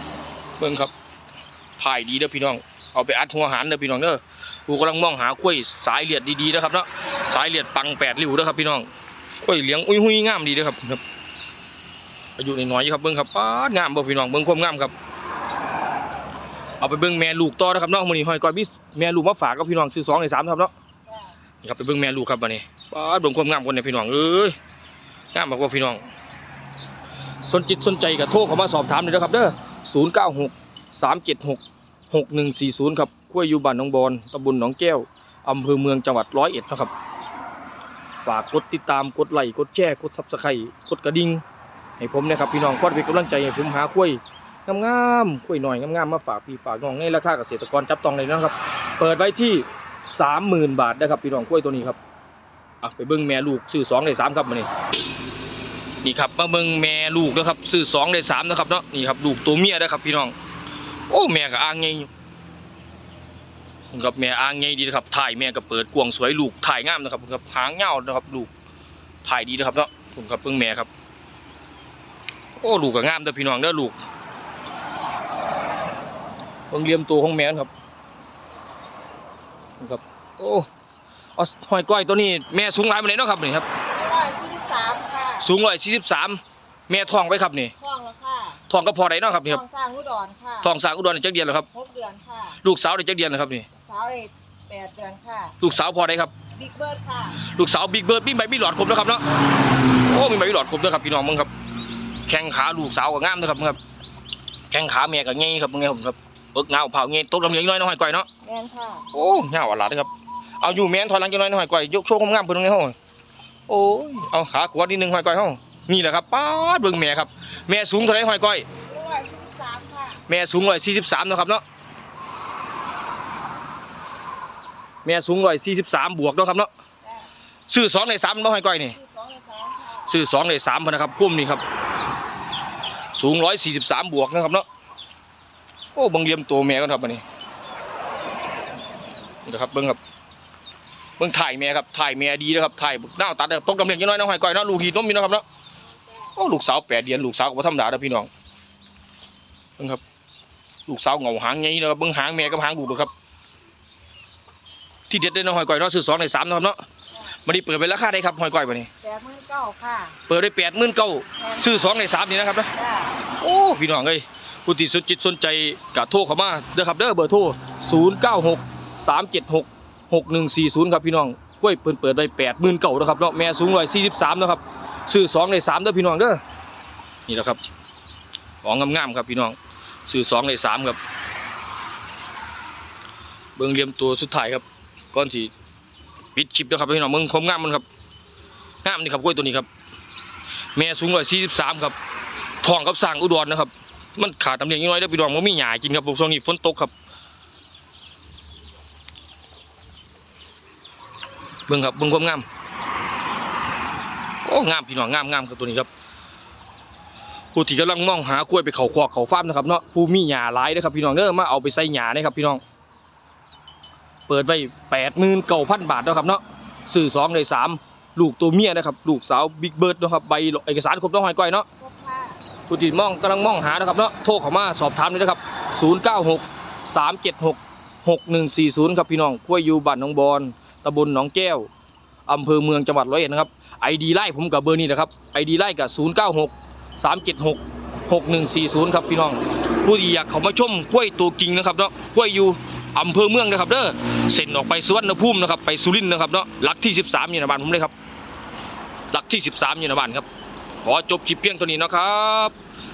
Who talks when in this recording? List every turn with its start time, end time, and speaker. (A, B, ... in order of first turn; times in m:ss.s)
0:00.6-0:00.9 A
0:01.8-0:08.9 A
0:09.4-0:11.0 A
0:12.4-0:14.9 A
0:16.8-0:20.7 A
0:21.1-0:21.4 B
0:21.6-0:24.6 A
0:25.3-0:26.1 A
0:27.4-0:36.9 A
0:38.2-0:41.4 A
0:42.0-0:52.0 A
0:52.8-0:54.7 A
0:56.0-1:00.4 A
1:01.1-1:02.1 A
1:03.9-1:08.5 A
1:09.2-1:10.9 A
1:12.6-1:14.0 A
1:16.7-1:17.7 A
1:19.8-1:20.7 A
1:21.4-1:23.7 A
1:23.9-1:25.5 B
1:25.4-1:27.7 A
1:27.8-1:28.6 B
1:28.7-1:29.6 A
1:29.4-1:30.7 B
1:30.6-1:31.7 A
1:31.7-1:32.6 B
1:32.6-1:33.7 A
1:33.8-1:35.6 B
1:35.6-1:36.3 A
1:36.6-1:37.4 B
1:37.4-1:41.5 A
1:42.3-1:43.8 A
1:44.7-1:48.3 A
1:48.4-1:49.1 B
1:49.1-1:53.0 A
1:53.7-1:58.7 A
1:58.9-2:00.2 B
2:00.3-2:01.6 A
2:05.0-2:06.7 A
2:07.0-2:07.3 B
2:07.7-2:09.0 A
2:08.9-2:10.1 B
2:10.1-2:11.6 A
2:13.1-2:14.7 A
2:16.0-2:17.2 A
2:19.4-2:20.0 A
2:21.2-2:25.4 A
2:26.4-2:28.3 A
2:30.9-2:33.1 A
2:35.1-2:36.8 A
2:37.4-2:38.9 A
2:39.0-2:40.2 B
2:40.3-2:42.7 A
2:41.4-2:42.0 B
2:42.7-2:43.2 B
2:43.4-2:56.4 A
2:57.3-2:57.6 A
2:58.6-3:01.0 A
3:03.6-3:05.5 A
3:06.4-3:07.8 A
3:08.8-3:09.7 A
3:10.8-3:12.0 A
3:12.6-3:16.9 A
3:21.7-3:22.4 A
3:24.4-3:25.9 A
3:27.6-3:32.6 A
3:34.3-3:41.7 A
3:41.8-3:42.4 B
3:42.7-3:51.7 A
3:52.3-4:07.9 A
4:09.1-4:10.3 A
4:10.8-4:12.5 A